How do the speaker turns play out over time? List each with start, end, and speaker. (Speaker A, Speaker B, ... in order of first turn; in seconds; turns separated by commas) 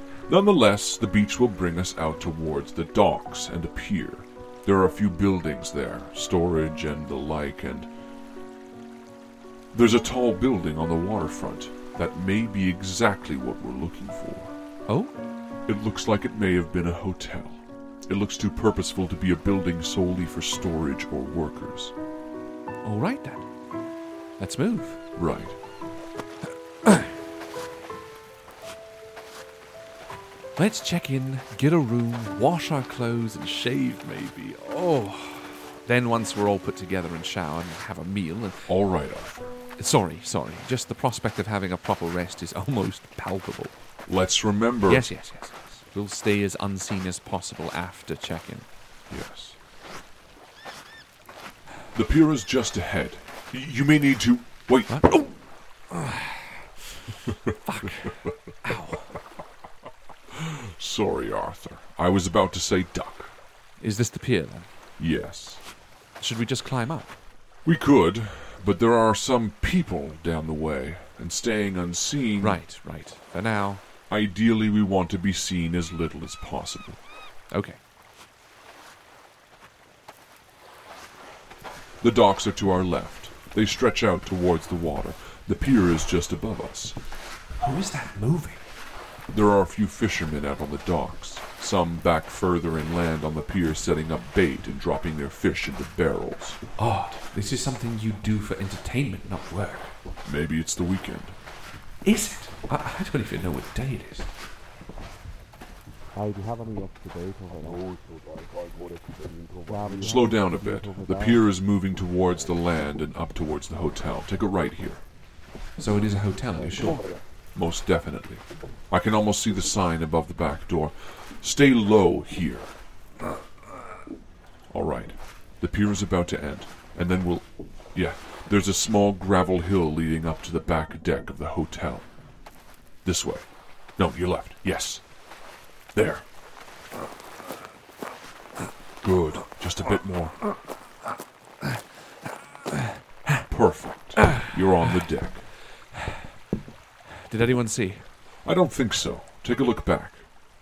Speaker A: 0.3-7.9, Speaker A: 9.7-14.5, Speaker B: 14.9-15.1, Speaker A: 15.7-21.9, Speaker B: 22.8-23.5, Speaker B: 24.4-25.0, Speaker A: 25.1-25.6, Speaker B: 30.6-38.7, Speaker A: 38.7-39.5, Speaker B: 39.8-43.7, Speaker A: 44.0-45.1, Speaker B: 44.9-48.7, Speaker A: 49.1-49.6, Speaker A: 51.9-55.3, Speaker B: 54.9-55.3, Speaker B: 55.9-56.6, Speaker B: 57.6-59.1, Speaker A: 60.3-63.3, Speaker B: 63.8-64.7, Speaker A: 65.0-65.6, Speaker B: 66.2-67.2, Speaker A: 67.6-72.6, Speaker B: 72.4-73.8, Speaker A: 74.1-77.0, Speaker B: 77.5-77.8, Speaker A: 82.0-87.0, Speaker B: 87.6-88.6, Speaker A: 89.3-96.6, Speaker B: 96.8-99.9, Speaker A: 100.2-101.3, Speaker B: 102.0-104.3, Speaker B: 107.3-107.8, Speaker C: 107.6-110.4, Speaker B: 109.7-111.1, Speaker A: 110.0-115.0, Speaker B: 115.8-117.1, Speaker A: 117.5-122.7, Speaker A: 124.7-132.1, Speaker A: 133.0-133.4, Speaker A: 134.0-135.0, Speaker A: 135.9-136.2, Speaker A: 139.0-140.4, Speaker A: 143.5-145.4, Speaker B: 147.3-148.0, Speaker A: 148.4-150.2